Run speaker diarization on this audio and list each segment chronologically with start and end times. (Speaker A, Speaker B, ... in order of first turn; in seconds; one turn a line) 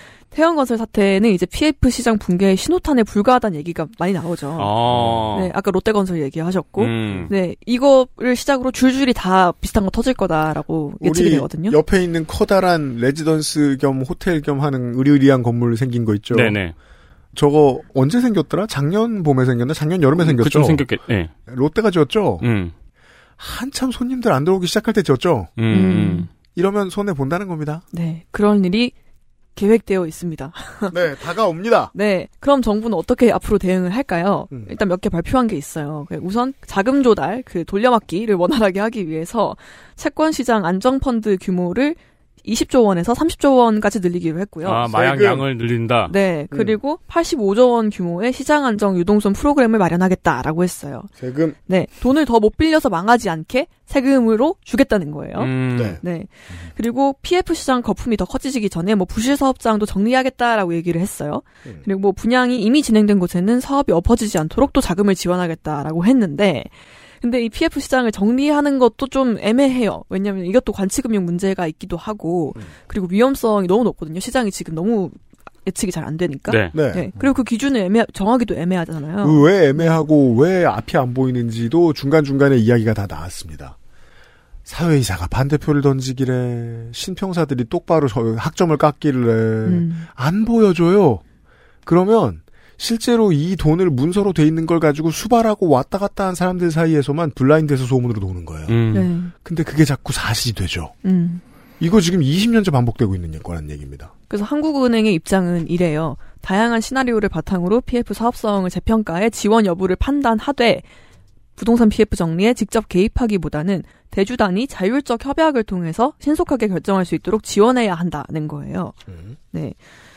Speaker A: 0.3-4.8
Speaker B: 4.6-5.5
Speaker A: 5.3-11.8
Speaker B: 6.8-7.3
Speaker C: 11.0-16.6
Speaker B: 16.3-16.7
Speaker C: 17.3-20.8
Speaker B: 20.2-21.3
Speaker C: 21.5-22.4
Speaker B: 22.4-22.7
Speaker C: 23.4-25.5
Speaker B: 25.6-26.3
Speaker A: 25.7-26.3
Speaker C: 26.5-27.8
Speaker A: 27.9-28.9
Speaker A: 29.6-30.9
Speaker C: 30.9-31.9
Speaker A: 31.9-44.9
Speaker B: 44.6-46.1
Speaker C: 44.9-45.5
Speaker A: 46.1-51.1
Speaker C: 46.5-46.8
Speaker C: 51.2-51.6
Speaker A: 51.7-66.7
Speaker B: 55.4-56.0
Speaker C: 55.7-56.0
Speaker A: 67.2-80.0
Speaker B: 76.5-76.7
Speaker C: 76.7-77.1
Speaker C: 79.2-83.8
Speaker C: 84.7-91.2
Speaker A: 89.6-90.1
Speaker C: 91.8-98.8
Speaker B: 98.7-99.1
Speaker A: 98.9-99.3
Speaker C: 99.3-100.9
Speaker A: 101.0-101.4
Speaker C: 101.8-104.1
Speaker A: 104.3-110.8
Speaker A: 111.5-119.0
Speaker C: 119.1-119.3
Speaker A: 119.5-119.8